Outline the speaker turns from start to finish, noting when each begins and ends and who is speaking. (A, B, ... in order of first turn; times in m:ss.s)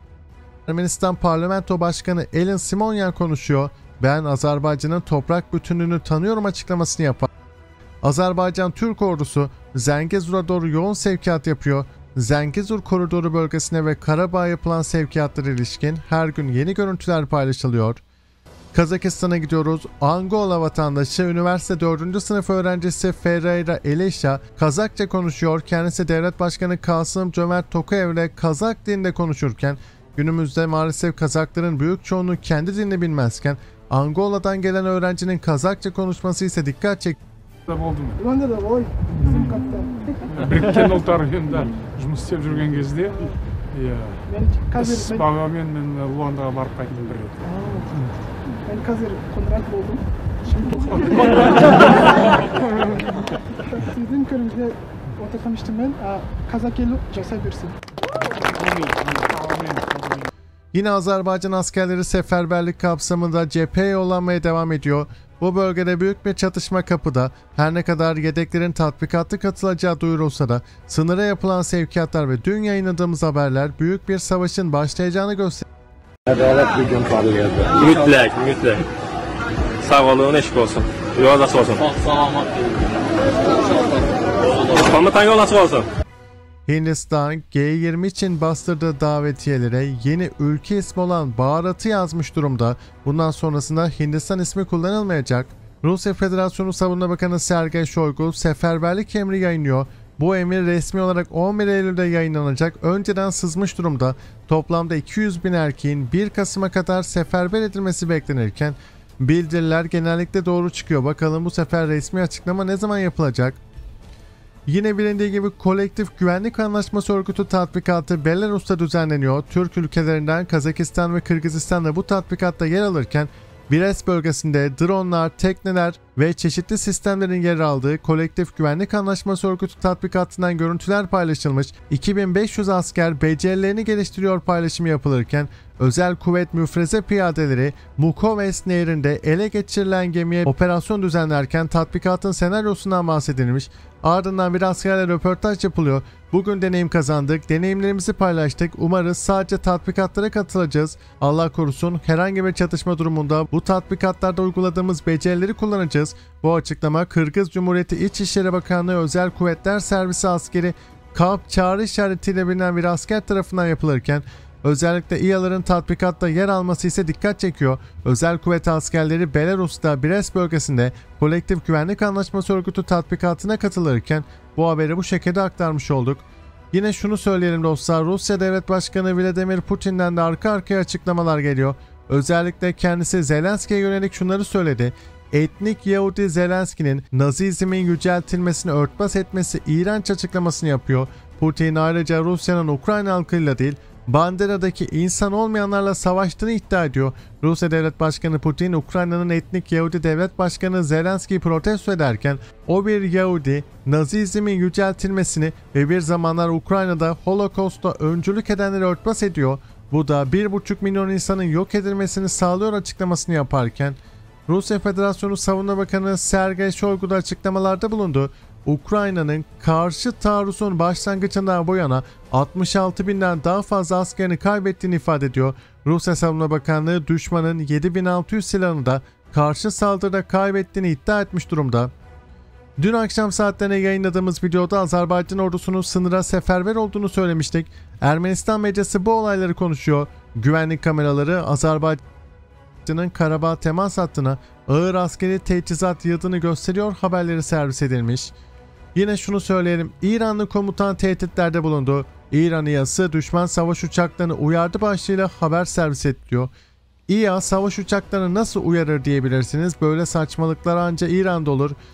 0:00.7-0:07.3 A
0:08.0-0:18.0 A
0:18.7-0:37.2 A
0:37.7-0:38.2 B
0:38.2-0:40.1 C
0:39.1-0:39.7 B
0:40.2-0:48.2 B
0:44.3-0:45.2 C
0:47.4-0:48.0 C
0:48.6-0:51.1 C
0:50.4-0:52.3 B
0:53.7-0:57.8 C
0:58.2-1:00.3 B
1:00.7-1:15.6 A
1:16.3-1:18.9 D
1:19.8-1:22.3 D
1:24.7-1:25.9 D
1:26.7-1:53.6 A
1:54.7-3:51.9 A
3:52.8-4:02.0 A
4:02.8-4:08.3 A
4:09.0-4:16.5 A
4:17.1-4:21.8 A